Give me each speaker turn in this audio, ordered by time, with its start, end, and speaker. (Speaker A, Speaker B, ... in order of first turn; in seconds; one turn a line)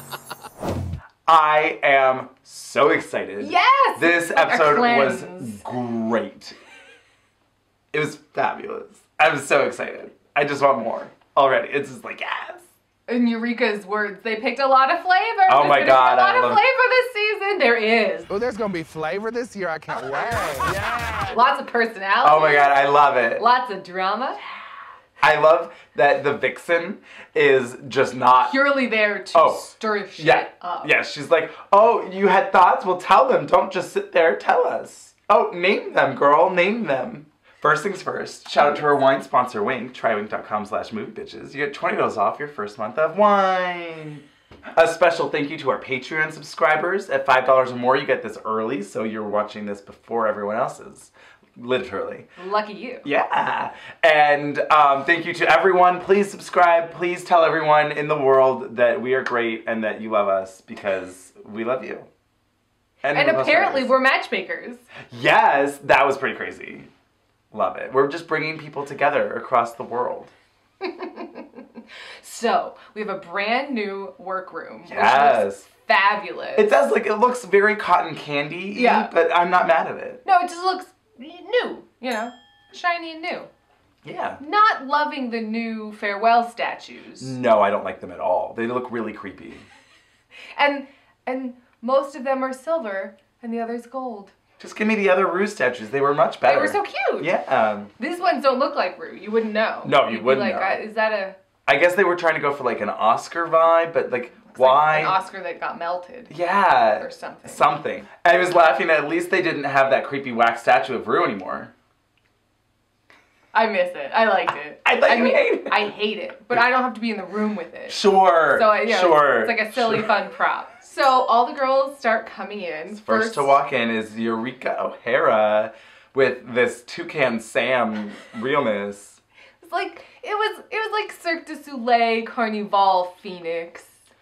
Speaker A: 1.3-6.5
Speaker B: 3.4-5.6
Speaker A: 7.9-12.7
Speaker B: 13.1-18.3
Speaker A: 15.5-16.6
Speaker C: 18.3-20.8
Speaker B: 21.2-24.4
Speaker A: 22.2-23.4
Speaker A: 25.2-28.5
Speaker B: 28.5-31.0
Speaker A: 29.3-29.6
Speaker A: 30.2-44.2
Speaker A: 44.7-52.3
Speaker B: 52.4-53.0
Speaker A: 53.0-62.1
Speaker A: 63.0-63.9
Speaker B: 63.1-64.9
Speaker A: 65.1-66.9
Speaker A: 67.5-70.3
Speaker B: 70.8-71.6
Speaker B: 72.2-76.7
Speaker A: 74.9-75.7
Speaker A: 76.5-80.2
Speaker B: 78.7-79.1
Speaker B: 80.2-83.5
Speaker A: 84.0-84.4
Speaker B: 84.4-87.3
Speaker A: 87.2-89.6
Speaker B: 90.5-94.3
Speaker A: 94.6-97.9
Speaker B: 96.5-97.3
Speaker B: 98.0-101.4
Speaker A: 99.8-100.8
Speaker A: 101.7-105.2
Speaker B: 104.5-106.3
Speaker A: 106.3-111.7
Speaker B: 107.0-107.7
Speaker B: 113.5-123.5
Speaker A: 114.8-115.9
Speaker A: 117.9-120.1
Speaker A: 122.9-129.2
Speaker B: 129.6-134.0